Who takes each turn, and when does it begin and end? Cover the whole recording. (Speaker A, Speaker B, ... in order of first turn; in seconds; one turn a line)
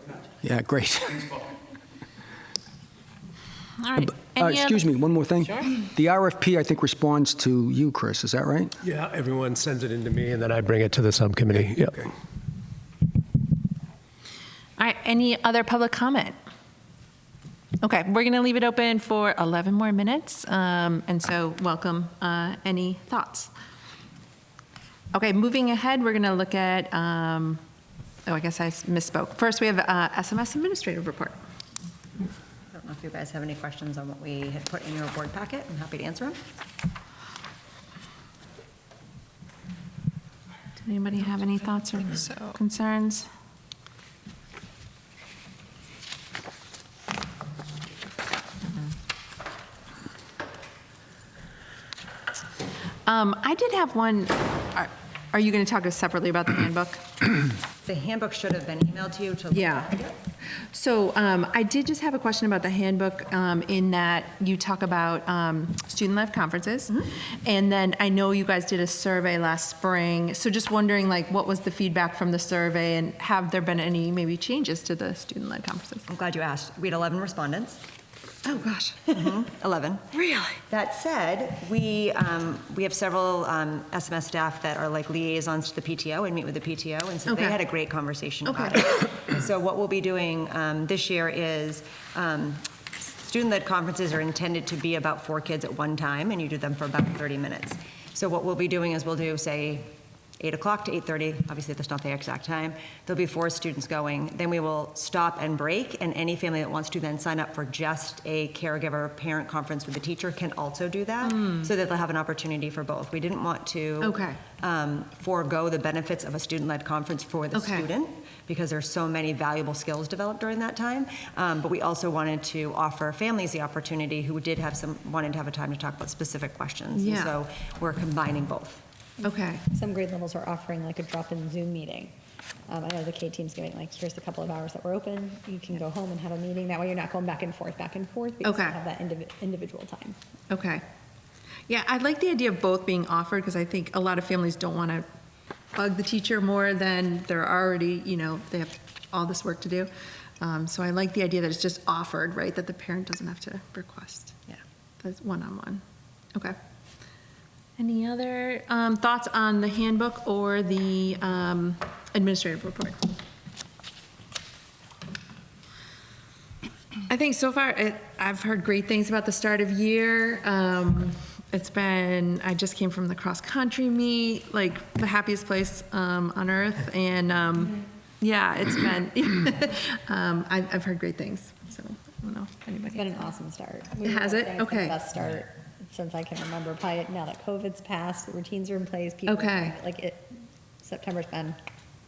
Speaker A: 0.4-1.4
Speaker B: 3.8-4.8
Speaker A: 4.2-8.7
Speaker C: 8.8-12.1
Speaker B: 14.8-16.4
Speaker B: 17.8-23.5
Speaker B: 25.1-27.6
Speaker B: 28.2-31.4
Speaker D: 32.7-36.4
Speaker B: 40.8-43.3
Speaker B: 53.0-57.1
Speaker D: 57.8-60.1
Speaker B: 59.5-60.0
Speaker B: 60.7-76.0
Speaker D: 76.1-77.8
Speaker B: 78.5-79.3
Speaker D: 79.1-80.0
Speaker B: 80.1-80.6
Speaker D: 80.7-128.8
Speaker B: 87.3-87.6
Speaker B: 88.4-89.2
Speaker B: 111.3-111.7
Speaker B: 114.0-114.4
Speaker B: 117.5-117.9
Speaker B: 126.9-127.3
Speaker B: 129.2-129.6
Speaker E: 129.7-132.1
Speaker E: 132.7-140.2
Speaker B: 138.4-138.8
Speaker B: 140.5-140.8
Speaker B: 141.7-145.1
Speaker B: 145.8-154.4
Speaker B: 155.0-155.8
Speaker B: 157.8-163.0
Speaker B: 167.1-183.2
Speaker E: 182.9-191.6
Speaker B: 184.0-184.9
Speaker B: 189.3-189.8